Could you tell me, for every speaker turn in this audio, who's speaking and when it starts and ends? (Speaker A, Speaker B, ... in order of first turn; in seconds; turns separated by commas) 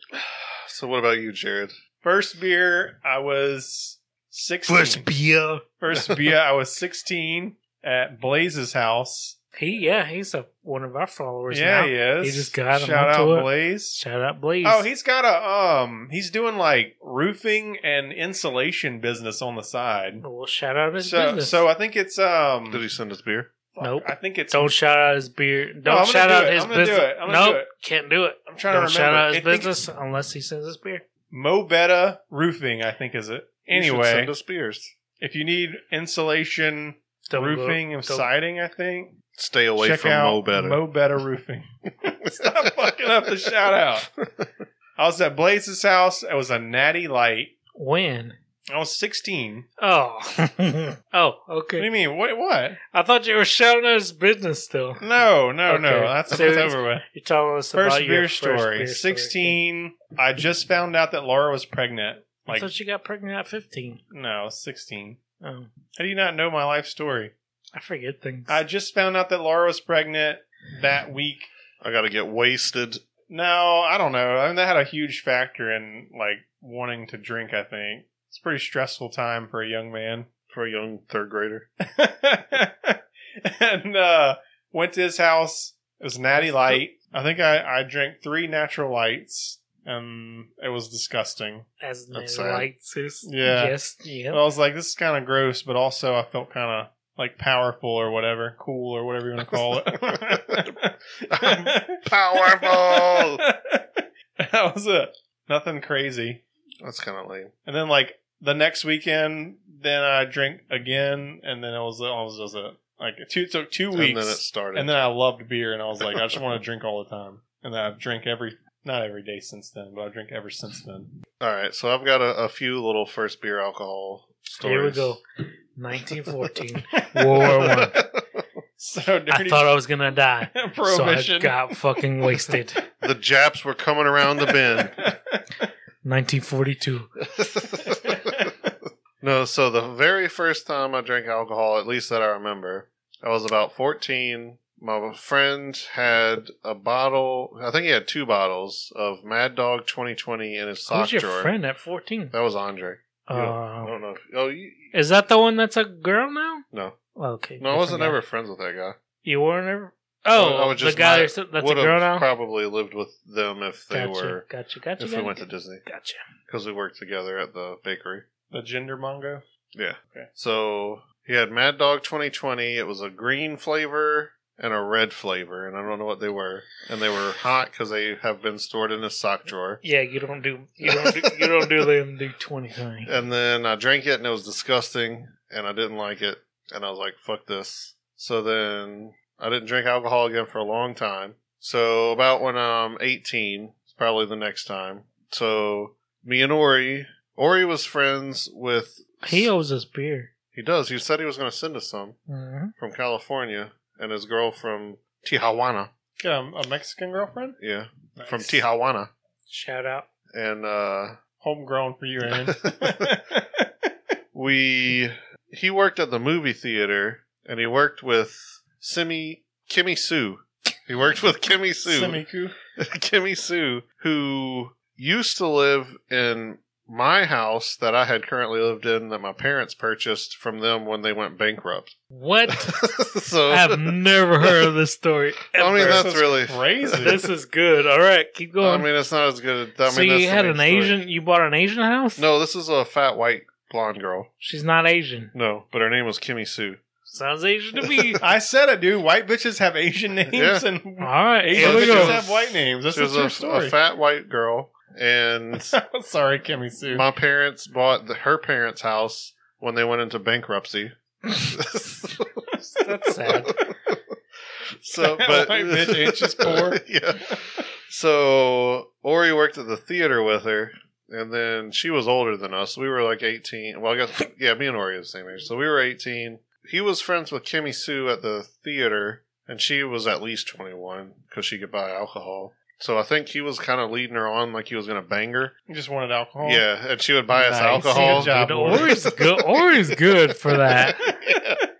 Speaker A: 0.1-1.7, Speaker B: 2.0-5.1, Speaker C: 4.7-5.6, Speaker B: 5.8-9.3, Speaker C: 9.6-14.9, Speaker B: 11.5-13.9, Speaker B: 14.6-20.2, Speaker C: 20.2-21.6, Speaker B: 21.0-22.8, Speaker A: 22.7-23.5, Speaker B: 23.7-24.7, Speaker C: 23.8-31.0, Speaker B: 25.8-27.7, Speaker B: 28.5-29.7, Speaker B: 31.3-34.3, Speaker A: 33.7-34.9, Speaker B: 35.2-39.1, Speaker C: 37.3-38.3, Speaker A: 39.4-40.8, Speaker B: 39.8-44.1, Speaker A: 42.4-42.7, Speaker A: 44.0-44.5, Speaker B: 45.0-47.5, Speaker C: 47.7-48.4, Speaker B: 48.7-49.6, Speaker C: 49.8-51.9, Speaker B: 51.8-52.8, Speaker C: 52.9-55.0, Speaker B: 55.0-57.0, Speaker C: 55.6-59.6, Speaker B: 57.7-62.7, Speaker C: 62.5-64.0, Speaker B: 64.1-65.2, Speaker C: 65.4-65.7, Speaker B: 65.9-67.3, Speaker C: 67.7-68.6, Speaker B: 68.5-71.5, Speaker A: 71.8-73.0, Speaker B: 73.3-80.3, Speaker A: 80.5-81.7, Speaker B: 81.9-91.7, Speaker C: 86.3-86.8, Speaker C: 91.8-94.4, Speaker A: 92.1-92.7, Speaker B: 93.2-93.8, Speaker B: 94.3-106.4, Speaker A: 99.5-100.7, Speaker A: 101.3-103.4, Speaker A: 106.8-107.5, Speaker B: 107.7-121.1, Speaker A: 113.9-115.0, Speaker A: 121.4-125.2, Speaker C: 124.6-125.2, Speaker C: 125.8-128.0, Speaker B: 127.0-127.6, Speaker A: 127.4-128.4, Speaker B: 128.8-129.8, Speaker C: 129.3-132.8, Speaker B: 130.5-132.6, Speaker A: 133.0-134.9, Speaker B: 134.5-135.7, Speaker C: 136.0-137.1, Speaker A: 137.3-138.5, Speaker B: 137.8-138.7, Speaker A: 139.2-151.5, Speaker C: 150.9-152.3, Speaker A: 152.3-154.9, Speaker C: 153.3-153.9, Speaker C: 154.9-156.6, Speaker A: 156.7-157.0, Speaker C: 157.2-158.2, Speaker A: 157.6-159.0, Speaker C: 159.2-162.3, Speaker A: 160.3-164.4, Speaker C: 163.9-166.2, Speaker A: 165.0-165.8, Speaker A: 166.5-168.2, Speaker B: 168.5-169.4, Speaker A: 169.7-179.8, Speaker C: 179.8-183.1, Speaker A: 180.8-181.5, Speaker A: 183.1-199.5, Speaker C: 199.2-200.3, Speaker A: 200.5-202.2, Speaker C: 202.3-202.7, Speaker A: 202.8-205.9, Speaker B: 206.2-207.6, Speaker A: 207.6-209.1, Speaker B: 208.2-208.6, Speaker C: 209.5-210.1, Speaker A: 210.3-211.2, Speaker B: 211.4-213.9, Speaker A: 212.3-213.1, Speaker A: 214.3-222.2, Speaker B: 221.8-222.5, Speaker A: 222.8-231.9, Speaker C: 232.1-232.8, Speaker A: 232.5-234.7, Speaker C: 233.5-236.1, Speaker A: 235.5-237.2, Speaker B: 235.8-237.2, Speaker C: 237.0-238.9, Speaker A: 238.6-241.0, Speaker C: 239.8-242.2, Speaker A: 242.2-244.3, Speaker C: 244.4-245.3, Speaker A: 245.3-246.8, Speaker C: 247.1-248.2, Speaker A: 247.8-248.2, Speaker B: 248.2-253.7, Speaker A: 250.3-250.6, Speaker C: 251.0-252.2, Speaker A: 251.6-255.7, Speaker B: 255.7-257.1, Speaker A: 256.9-262.3, Speaker C: 262.7-263.6, Speaker A: 263.2-264.0, Speaker A: 264.8-285.5, Speaker B: 265.0-267.4, Speaker B: 285.7-286.6, Speaker A: 286.4-291.6, Speaker B: 287.3-288.9, Speaker C: 287.8-291.0